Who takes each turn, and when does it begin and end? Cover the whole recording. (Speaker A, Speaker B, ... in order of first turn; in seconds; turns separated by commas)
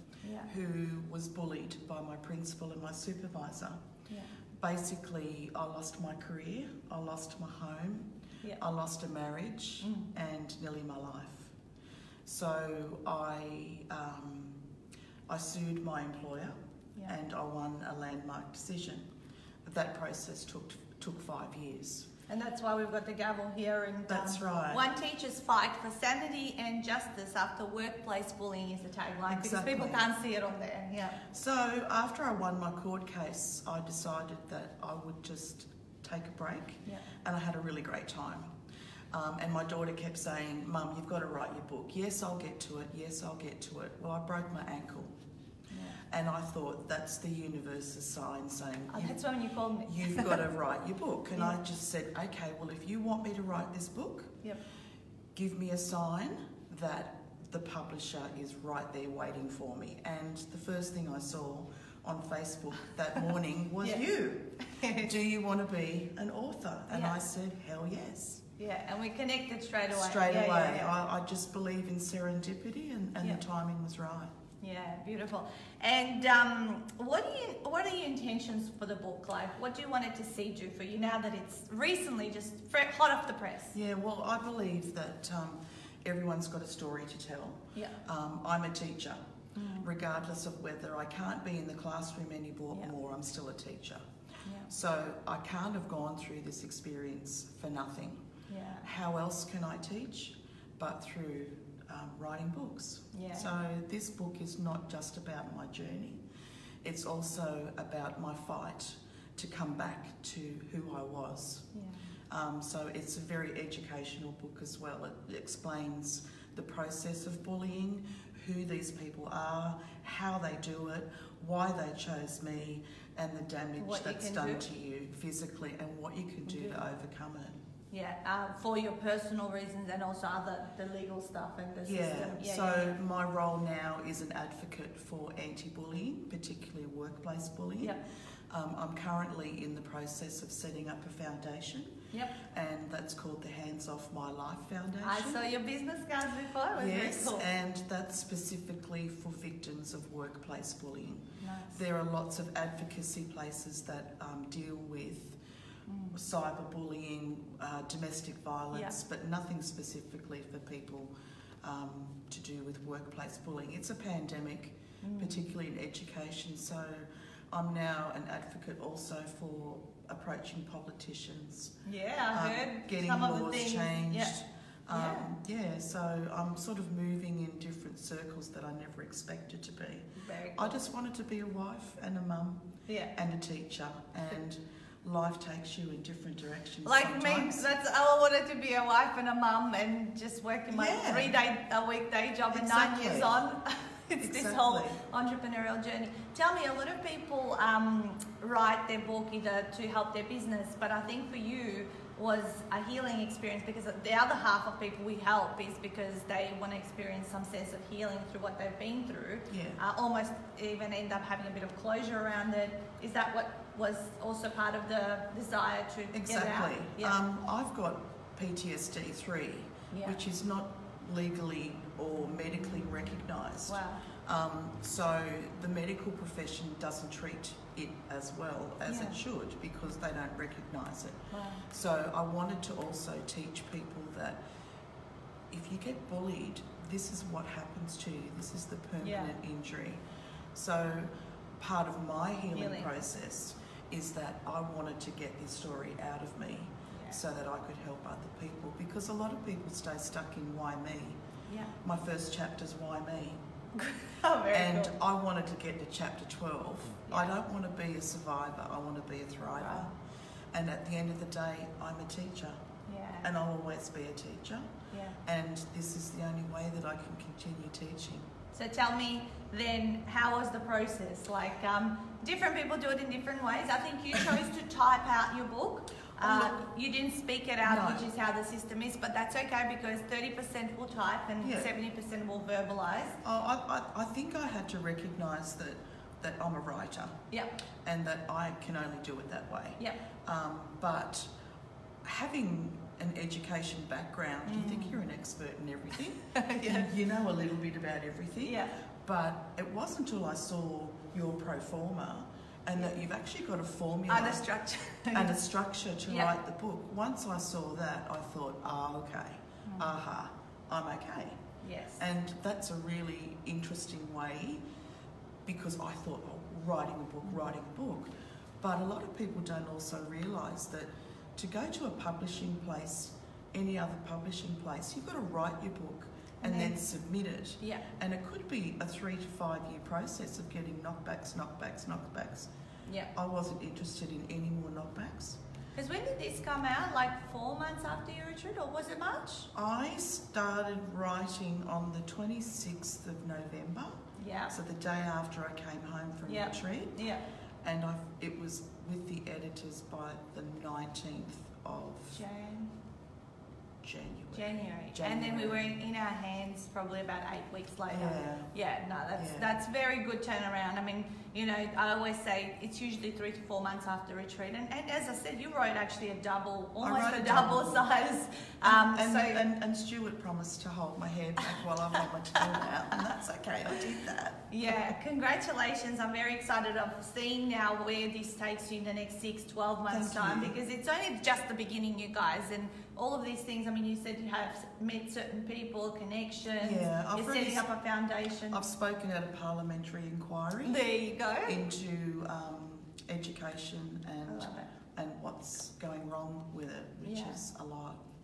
Speaker A: 0.2-0.5, Speaker B: 0.5-3.8, Speaker A: 4.1-4.3, Speaker B: 4.6-11.5, Speaker A: 9.8-10.1, Speaker B: 12.2-14.6, Speaker B: 15.3-19.1, Speaker B: 19.6-22.1, Speaker A: 22.3-31.2, Speaker B: 24.1-24.8, Speaker B: 29.3-30.1, Speaker B: 31.2-38.5, Speaker B: 39.1-45.1, Speaker A: 45.7-46.0, Speaker B: 46.1-49.2, Speaker A: 48.9-50.4, Speaker B: 49.8-54.4, Speaker B: 55.3-68.4, Speaker A: 64.6-65.1, Speaker A: 66.9-67.2, Speaker A: 68.6-70.9, Speaker B: 69.9-74.3, Speaker A: 74.6-83.7, Speaker B: 83.7-89.2, Speaker A: 89.5-89.9, Speaker B: 89.8-94.0, Speaker A: 94.4-94.7, Speaker B: 94.7-98.2, Speaker A: 98.5-98.8, Speaker B: 98.8-106.2, Speaker A: 103.1-103.5, Speaker B: 106.8-111.7, Speaker A: 111.7-112.0, Speaker B: 112.3-127.5, Speaker A: 123.8-124.7, Speaker A: 126.4-126.8, Speaker A: 127.9-133.0, Speaker B: 131.8-138.0, Speaker B: 138.5-145.4, Speaker A: 142.1-142.4, Speaker A: 145.0-147.4, Speaker B: 146.7-155.4, Speaker A: 151.4-151.8, Speaker A: 155.9-156.2, Speaker B: 156.1-161.1, Speaker B: 161.6-171.7, Speaker A: 165.0-165.4, Speaker A: 171.8-174.3, Speaker B: 172.3-187.7, Speaker A: 174.9-175.3, Speaker A: 180.2-180.8, Speaker A: 182.9-183.1, Speaker A: 186.8-217.2, Speaker B: 190.7-191.3, Speaker B: 192.5-193.4, Speaker B: 194.2-195.0, Speaker B: 209.5-209.8, Speaker B: 216.1-234.4, Speaker A: 219.9-220.2, Speaker A: 223.7-224.1, Speaker A: 228.9-229.2, Speaker A: 231.3-231.6, Speaker B: 235.5-240.0, Speaker A: 239.0-239.3, Speaker B: 240.5-251.2, Speaker A: 242.5-242.9, Speaker A: 246.9-247.2, Speaker A: 251.5-251.7, Speaker B: 251.8-253.4, Speaker A: 253.7-254.9, Speaker B: 254.5-259.9, Speaker A: 257.1-257.3, Speaker A: 259.6-259.9, Speaker B: 260.5-262.6, Speaker A: 262.9-263.3, Speaker B: 263.2-264.7, Speaker A: 264.9-265.2, Speaker B: 265.2-268.2, Speaker A: 268.5-283.2, Speaker B: 276.2-276.6, Speaker B: 277.6-278.1, Speaker B: 281.4-281.7, Speaker B: 283.2-287.1, Speaker B: 287.8-291.3, Speaker B: 292.0-304.4, Speaker A: 294.4-295.0, Speaker A: 296.2-296.9, Speaker A: 298.4-298.7, Speaker A: 304.1-305.3, Speaker B: 305.1-311.4, Speaker A: 306.1-306.3, Speaker A: 309.6-309.9, Speaker A: 311.6-312.0, Speaker B: 312.0-314.6, Speaker B: 315.4-332.5, Speaker A: 326.4-326.8, Speaker A: 327.6-327.8, Speaker A: 332.9-333.1, Speaker B: 333.1-335.4, Speaker A: 335.7-339.5, Speaker B: 339.5-347.0, Speaker A: 344.2-344.5, Speaker A: 346.3-347.2, Speaker B: 347.6-352.2, Speaker A: 352.1-352.7, Speaker B: 353.8-355.7, Speaker A: 354.3-369.4, Speaker B: 357.9-358.5, Speaker B: 359.1-359.5, Speaker B: 366.8-367.9, Speaker B: 368.6-374.9, Speaker A: 372.4-373.0, Speaker A: 373.7-388.6, Speaker B: 379.9-380.5, Speaker B: 386.6-387.6, Speaker B: 388.5-390.9, Speaker A: 390.6-391.6, Speaker B: 391.4-398.0, Speaker A: 394.3-394.7, Speaker A: 397.0-397.4